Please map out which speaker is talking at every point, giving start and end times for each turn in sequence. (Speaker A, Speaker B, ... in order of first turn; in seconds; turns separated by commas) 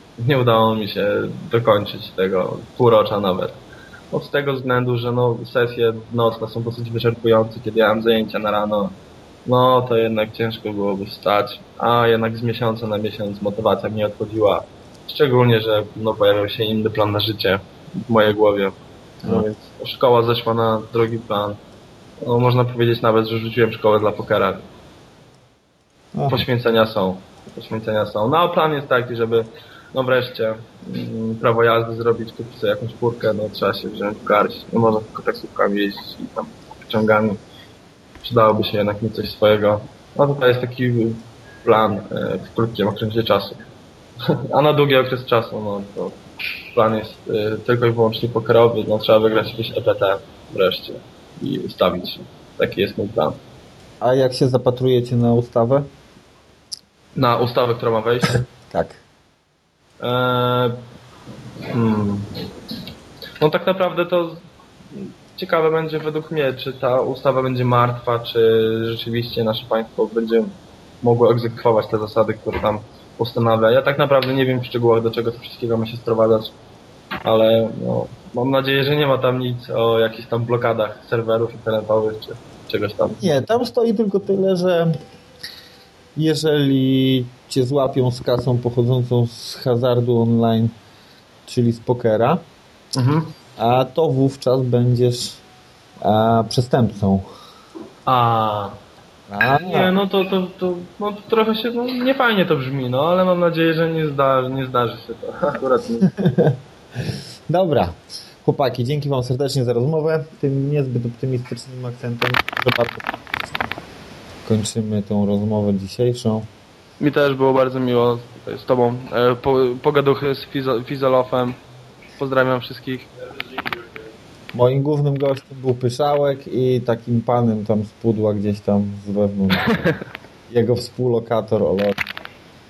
Speaker A: 0.2-3.6, Speaker A: 4.1-21.6, Speaker A: 22.2-24.7, Speaker B: 26.1-26.4, Speaker A: 26.3-37.4, Speaker A: 38.2-43.6, Speaker A: 44.5-46.2, Speaker A: 46.7-53.4, Speaker B: 54.0-55.9, Speaker A: 57.1-58.5, Speaker B: 58.6-59.0, Speaker A: 60.0-60.9, Speaker A: 61.7-62.3, Speaker A: 63.4-64.4, Speaker A: 64.9-76.5, Speaker A: 77.2-83.3, Speaker B: 83.1-84.9, Speaker B: 86.2-90.7, Speaker B: 91.5-92.4, Speaker A: 92.9-93.3, Speaker B: 93.6-95.4, Speaker B: 96.0-97.3, Speaker A: 98.0-98.8, Speaker B: 99.3-99.9, Speaker A: 99.4-106.1, Speaker B: 106.1-106.6, Speaker B: 107.5-113.0, Speaker B: 114.4-116.5, Speaker A: 117.0-121.6, Speaker A: 122.2-123.1, Speaker B: 124.5-129.7, Speaker B: 130.5-132.1